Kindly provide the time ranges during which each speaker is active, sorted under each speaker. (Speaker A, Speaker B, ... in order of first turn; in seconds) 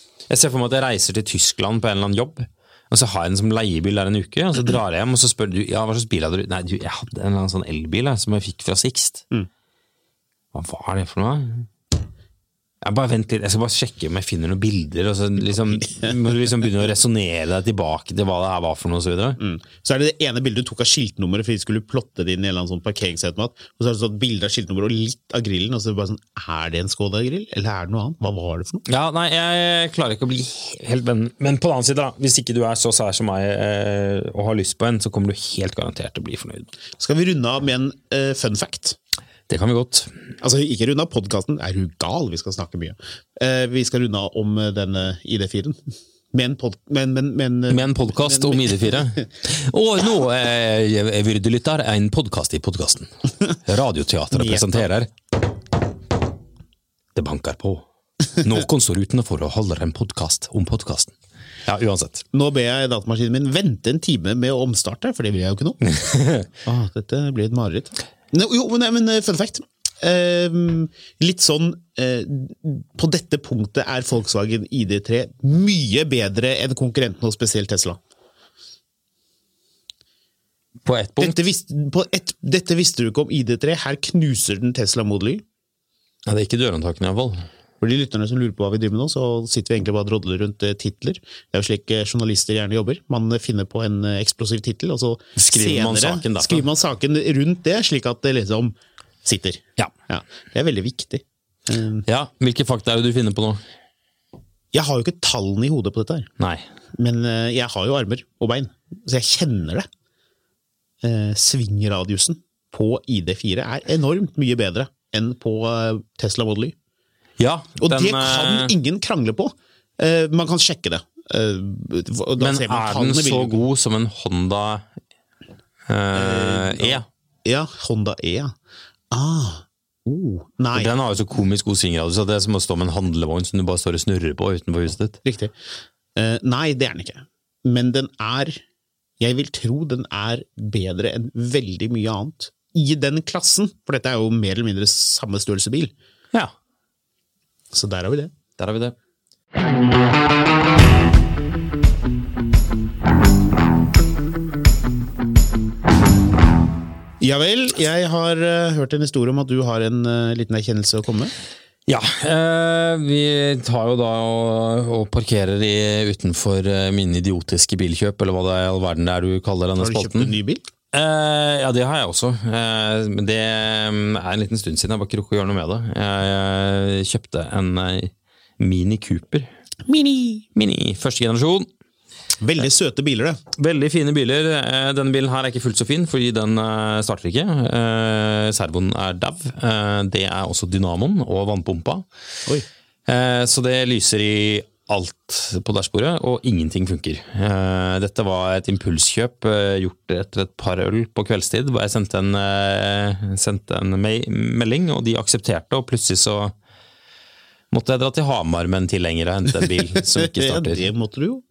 Speaker A: 0.3-9.2, 10.5-11.7, 12.8-19.4, 28.9-36.7, 39.5-40.1, 47.7-55.1, 57.2-57.9, 58.4-61.1, 61.7-62.2, 65.8-66.5, 80.8-81.4, 86.3-87.5, 95.4-96.7, 102.1-103.6, 117.4-118.7, 122.4-124.8, 125.9-127.1, 130.7-135.2, 148.6-148.9, 161.9-170.3, 170.9-179.5, 180.6-181.7, 183.6-192.1, 193.1-206.5, 207.7-210.9
Speaker B: 19.4-28.8, 37.0-39.0, 40.4-45.8, 46.3-49.2, 54.3-54.9, 62.3-65.8, 66.7-78.0, 81.2-85.4, 87.8-102.0, 104.7-106.3, 107.0-109.9, 111.0-116.7, 117.8-123.6, 126.1-128.6, 129.1-130.9, 135.2-135.6, 136.2-138.6, 139.2-145.9, 147.7-148.3, 157.2-161.3, 169.8-170.7, 179.9-180.5, 182.4-183.4, 209.6-211.4